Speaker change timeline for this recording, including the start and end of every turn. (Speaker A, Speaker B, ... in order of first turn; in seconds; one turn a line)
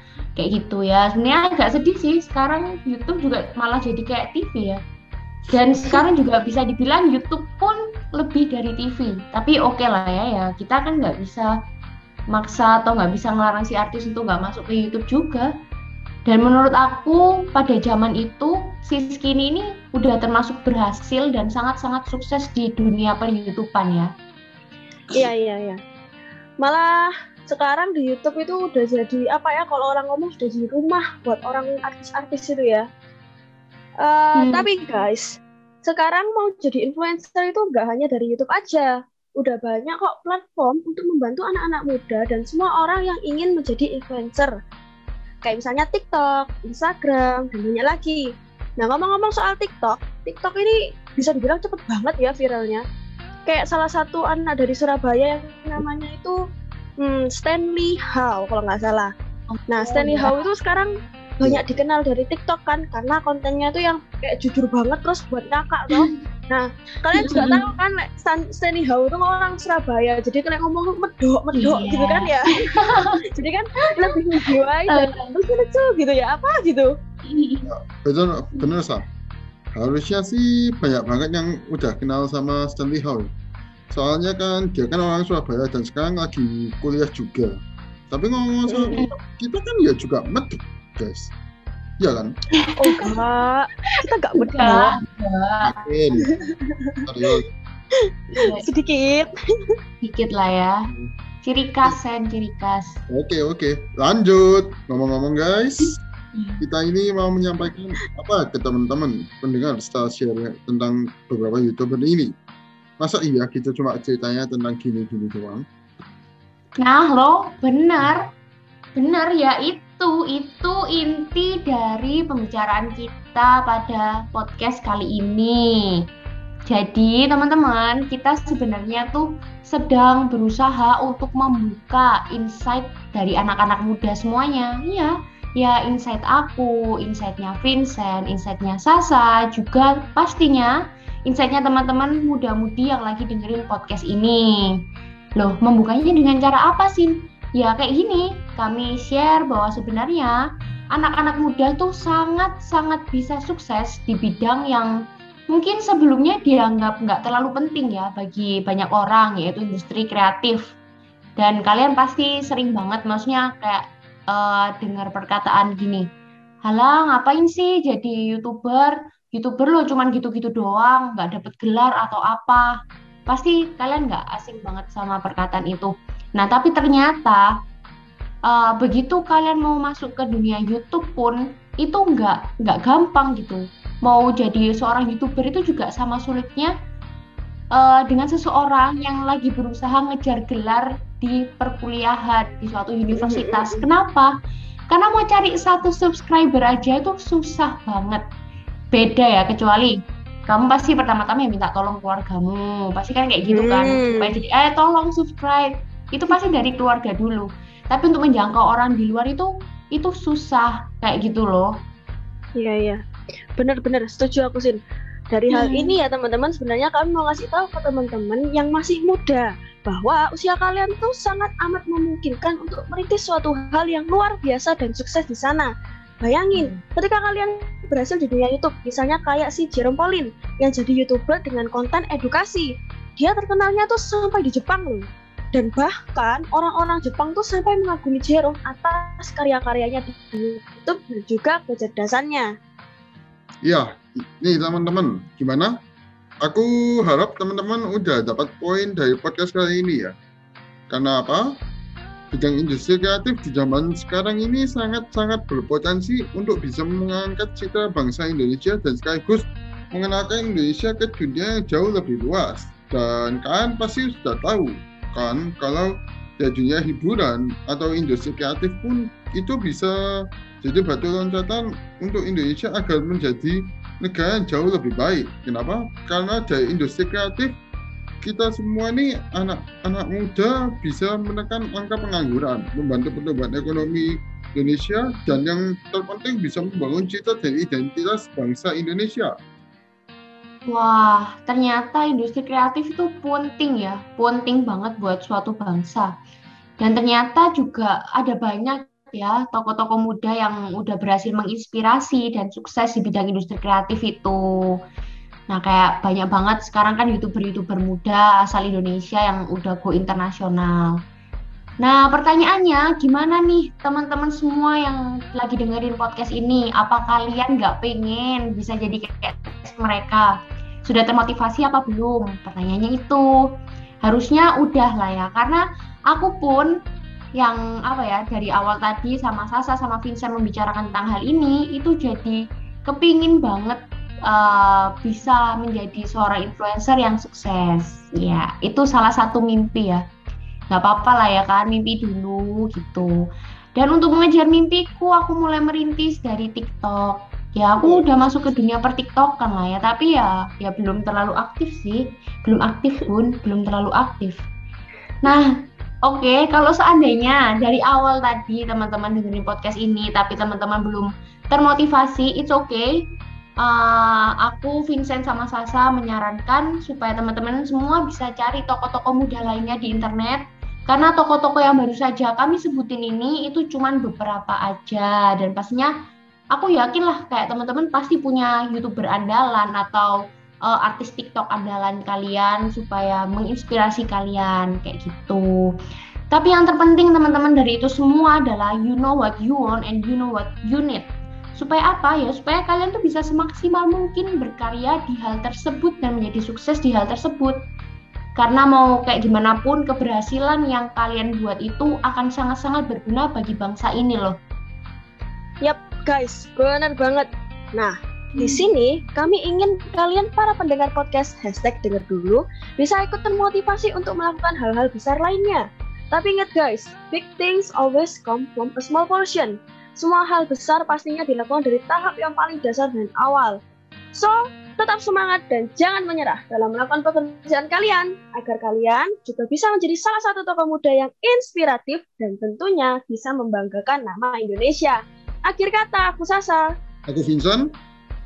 Speaker A: 0.3-4.8
Speaker A: 5.5-11.5
Speaker A: 12.3-15.5
Speaker A: 16.2-24.1
Speaker B: 25.1-25.8
Speaker B: 26.6-32.8
Speaker B: 34.0-44.5
Speaker A: 34.4-34.7
Speaker B: 45.4-52.8
Speaker B: 53.5-56.4
Speaker B: 57.0-59.1
Speaker A: 59.5-60.4
Speaker B: 59.7-76.9
Speaker A: 67.1-67.7
Speaker A: 71.5-73.2
Speaker A: 73.8-74.2
Speaker A: 74.9-75.3
Speaker A: 77.2-77.7
Speaker C: 77.7-79.0
Speaker C: 79.7-83.3
Speaker C: 83.9-87.6
Speaker C: 88.1-91.3
Speaker B: 88.7-89.0
Speaker C: 92.0-92.3
Speaker B: 92.8-95.0
Speaker A: 92.8-93.1
Speaker A: 94.3-95.8
Speaker C: 95.6-96.4
Speaker B: 96.3-96.9
Speaker C: 97.0-97.4
Speaker A: 98.3-98.7
Speaker B: 98.4-99.7
Speaker A: 100.0-100.8
Speaker A: 101.4-103.0
Speaker C: 103.1-106.0
Speaker A: 105.8-106.6
Speaker C: 106.6-112.3
Speaker C: 113.0-115.6
Speaker A: 116.8-118.2
Speaker A: 119.0-126.0
Speaker A: 126.7-140.7
Speaker A: 141.2-144.8
Speaker A: 145.4-150.4
Speaker A: 150.9-154.9
Speaker A: 155.5-160.7
Speaker A: 161.4-166.1
Speaker A: 166.6-172.7
Speaker A: 173.3-177.5
Speaker A: 178.4-186.7
Speaker A: 187.7-194.3
Speaker B: 193.1-193.9
Speaker A: 194.9-198.2
Speaker A: 198.9-211.7
Speaker B: 203.5-204.4
Speaker B: 212.6-213.0
Speaker B: 213.6-214.8
Speaker B: 215.3-225.7
Speaker A: 215.5-216.0
Speaker B: 226.2-242.4
Speaker A: 226.5-226.8
Speaker C: 243.6-245.8
Speaker C: 246.4-250.1
Speaker C: 250.9-251.4
Speaker C: 252.3-269.9
Speaker C: 270.6-277.5
Speaker C: 278.2-289.3
Speaker A: 290.7-296.1
Speaker A: 296.8-304.4
Speaker A: 305.5-310.9
Speaker A: 311.8-320.3
Speaker A: 320.8-323.3
Speaker A: 324.0-326.7
Speaker A: 327.4-340.0
Speaker A: 340.7-343.1
Speaker A: 343.7-354.4
Speaker A: 355.2-355.5
Speaker A: 356.0-362.9
Speaker A: 363.6-375.9
Speaker A: 376.5-385.8
Speaker A: 386.3-397.6
Speaker A: 398.3-404.4
Speaker B: 405.6-423.6
Speaker A: 408.4-408.7
Speaker B: 424.1-436.7
Speaker C: 437.1-437.7